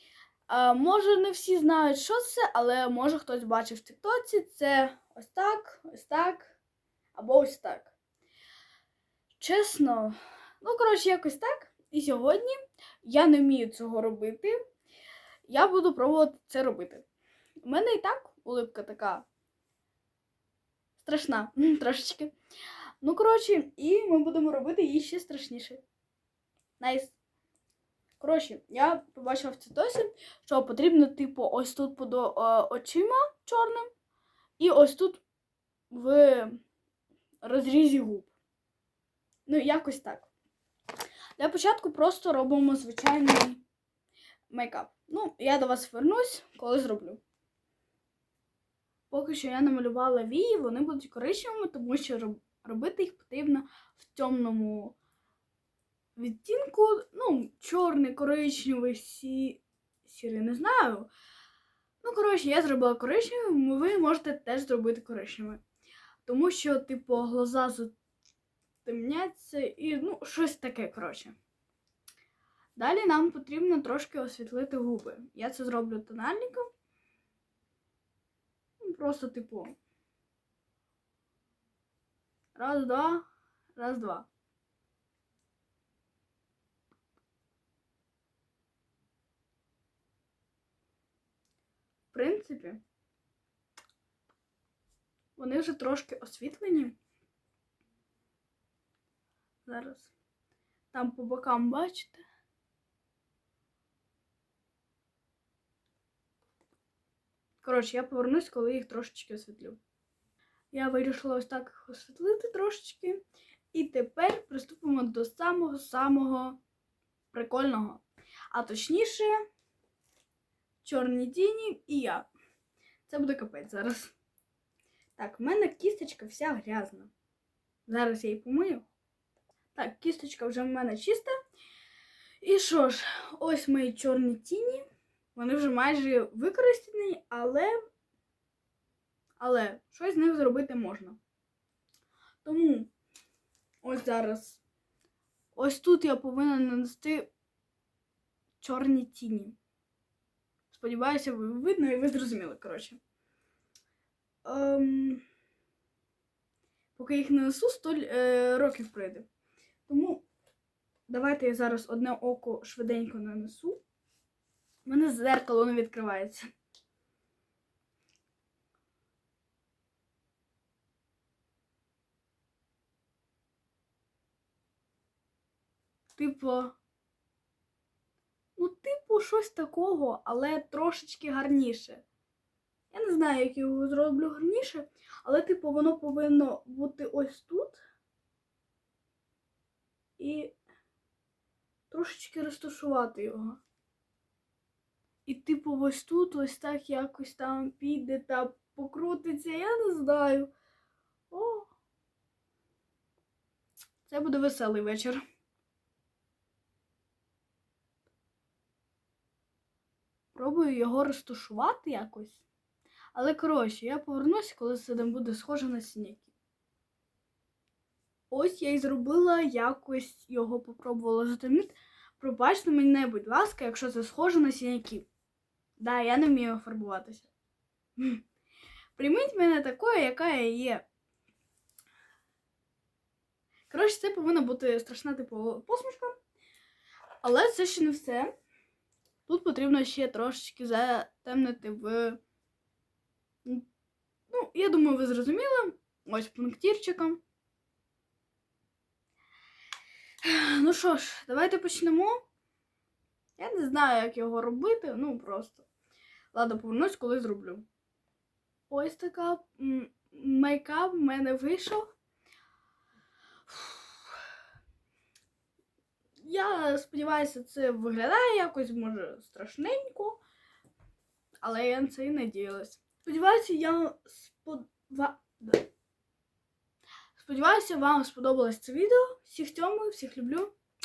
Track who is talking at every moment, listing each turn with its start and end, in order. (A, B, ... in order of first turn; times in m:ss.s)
0:00.5-0:06.5 A
0:07.1-0:07.9 A
0:09.4-0:14.6 A
0:15.5-0:17.0 A
0:17.6-0:19.2 A
0:21.0-0:22.3 A
0:23.0-0:25.8 A
0:26.8-0:27.1 A
0:28.2-0:33.9 A
0:34.6-0:35.2 A
0:35.9-0:36.6 A
0:37.4-0:38.3 A
0:39.5-0:40.3 A
0:41.4-0:43.6 A
0:44.5-0:47.2 A
0:49.1-0:55.0 A
0:56.2-1:01.1 A
1:02.0-1:05.6 A
1:06.2-1:07.9 A
1:08.8-1:11.4 A
1:12.8-1:16.7 A
1:18.8-1:19.7 A
1:22.5-1:24.3 A
1:32.1-1:32.8 A
1:35.4-1:37.0 A
1:39.6-1:40.1 A
1:40.9-1:42.2 A
1:47.6-1:49.8 A
1:50.7-1:56.6 A
1:57.3-1:59.4 A
2:00.8-2:02.3 A
2:03.1-2:04.1 A
2:05.2-2:07.1 A
2:07.9-2:08.8 A
2:09.7-2:11.3 A
2:12.4-2:14.8 A
2:15.3-2:17.7 A
2:19.4-2:21.2 A
2:22.4-2:22.9 A
2:23.8-2:24.6 A
2:25.5-2:27.3 A
2:28.6-2:29.6 A
2:30.7-2:33.0 A
2:34.4-2:35.2 A
2:37.0-2:39.3 A
2:39.9-2:40.2 A
2:41.1-2:43.8 A
2:44.8-2:46.4 A
2:56.2-2:56.8 A
2:58.6-3:02.0 A
3:02.9-3:07.8 A
3:10.2-3:10.5 A
3:11.9-3:13.6 A
3:15.2-3:20.5 A
3:21.3-3:21.7 A
3:24.0-3:25.2 A
3:30.3-3:32.4 A
3:33.1-3:36.3 A
3:38.3-3:45.1 A
3:45.8-3:47.3 A
3:48.0-3:48.2 A
3:49.0-3:50.8 A
3:53.7-3:56.2 A
3:57.2-3:58.3 A
3:59.2-4:02.2 A
4:04.3-4:07.2 A
4:10.2-4:12.2 A
4:13.4-4:15.6 A
4:16.3-4:17.6 A
4:18.7-4:21.9 A
4:23.5-4:24.0 A
4:26.2-4:30.2 A
4:31.4-4:35.6 A
4:37.1-4:40.5 A